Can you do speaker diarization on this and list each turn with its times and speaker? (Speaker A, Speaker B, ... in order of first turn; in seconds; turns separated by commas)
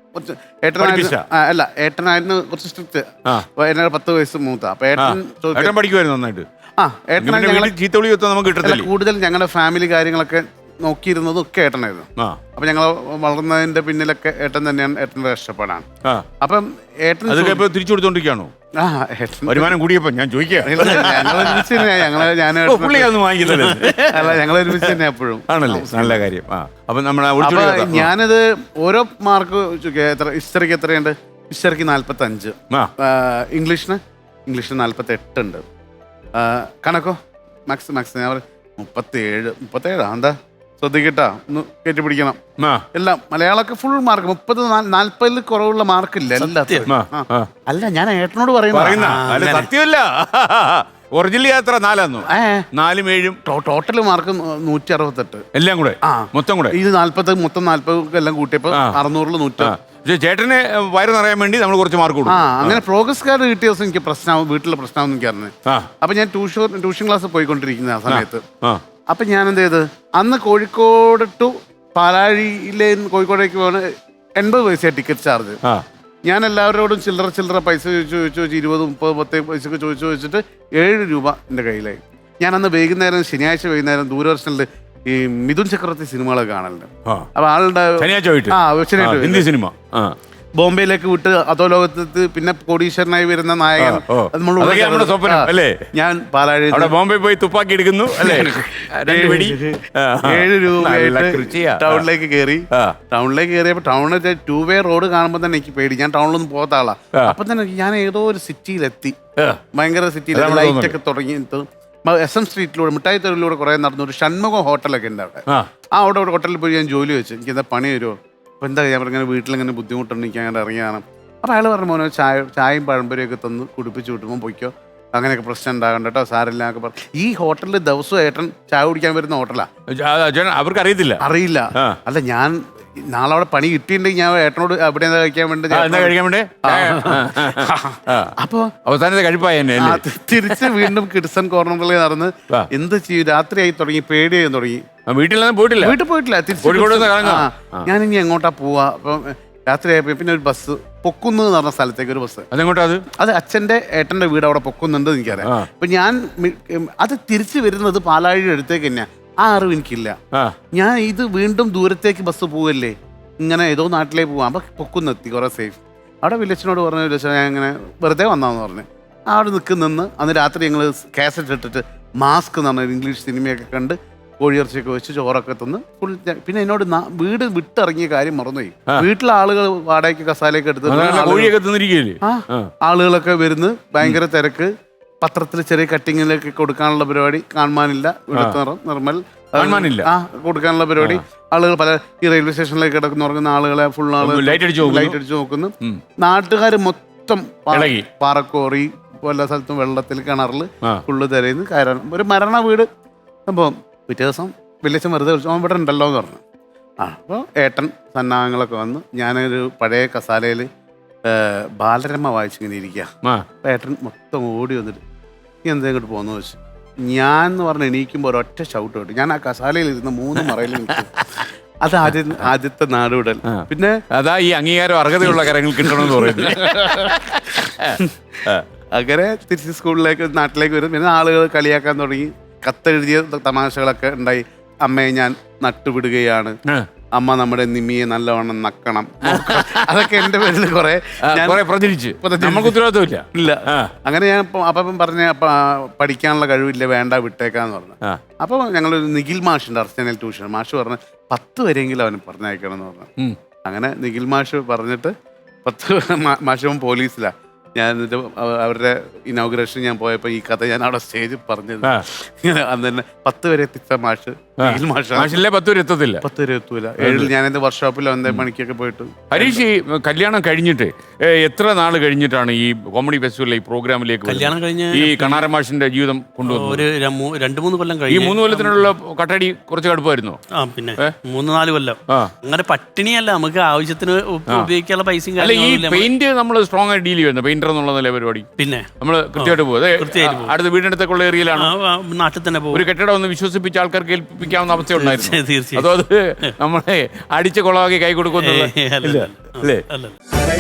Speaker A: 0.1-5.8, Speaker B: 0.8-1.2, Speaker B: 5.0-6.5, Speaker A: 6.8-7.7, Speaker B: 7.2-8.9, Speaker A: 8.6-15.8, Speaker A: 16.4-17.7, Speaker B: 17.3-18.5, Speaker A: 18.8-19.8, Speaker B: 19.5-24.9, Speaker A: 20.6-26.3, Speaker C: 23.4-24.1, Speaker B: 25.5-28.1, Speaker A: 27.4-35.6, Speaker A: 36.4-42.4, Speaker B: 42.6-42.8, Speaker A: 42.9-49.7, Speaker C: 46.4-46.9, Speaker B: 46.9-47.5, Speaker B: 48.7-53.4, Speaker C: 49.0-49.7, Speaker A: 52.3-52.7, Speaker A: 53.5-55.5, Speaker B: 55.5-56.8, Speaker A: 56.0-59.8, Speaker B: 58.7-59.0, Speaker B: 59.6-62.8, Speaker A: 62.3-68.4, Speaker B: 68.1-68.8, Speaker A: 69.1-75.6, Speaker A: 76.3-89.5, Speaker B: 88.0-90.2, Speaker A: 90.6-97.0, Speaker B: 93.8-95.8, Speaker B: 96.7-102.0, Speaker A: 98.1-109.2, Speaker B: 102.7-103.0, Speaker A: 109.7-129.7, Speaker B: 110.3-111.0, Speaker B: 129.9-131.2, Speaker A: 131.2-138.7, Speaker B: 135.7-140.0, Speaker A: 139.8-144.8, Speaker B: 145.1-146.0, Speaker A: 145.8-152.5, Speaker B: 146.6-147.9, Speaker B: 152.5-153.1, Speaker A: 153.1-160.2, Speaker A: 160.7-181.5, Speaker B: 180.9-182.7, Speaker A: 182.2-184.7, Speaker A: 185.2-202.9, Speaker B: 189.6-190.1, Speaker B: 194.2-195.2, Speaker B: 197.7-198.1, Speaker A: 203.5-206.4, Speaker A: 207.0-210.7, Speaker A: 211.2-213.1, Speaker A: 213.6-215.0, Speaker A: 215.7-221.1, Speaker B: 220.5-221.0, Speaker A: 221.8-224.0, Speaker B: 223.5-228.7, Speaker A: 225.3-236.6, Speaker A: 237.2-241.7, Speaker B: 239.2-240.3, Speaker B: 241.2-243.9, Speaker A: 242.2-242.8, Speaker A: 243.3-253.1, Speaker A: 253.7-255.1, Speaker A: 255.7-265.4, Speaker B: 264.6-266.2, Speaker A: 266.2-269.6, Speaker B: 267.0-267.3, Speaker B: 269.3-276.9, Speaker C: 274.2-275.5, Speaker C: 276.4-278.9, Speaker B: 278.1-280.4, Speaker C: 280.6-286.1, Speaker B: 285.4-288.5, Speaker C: 288.6-290.6, Speaker B: 289.0-291.7, Speaker C: 291.6-292.8, Speaker B: 292.7-299.8, Speaker C: 294.7-295.9, Speaker C: 298.4-300.2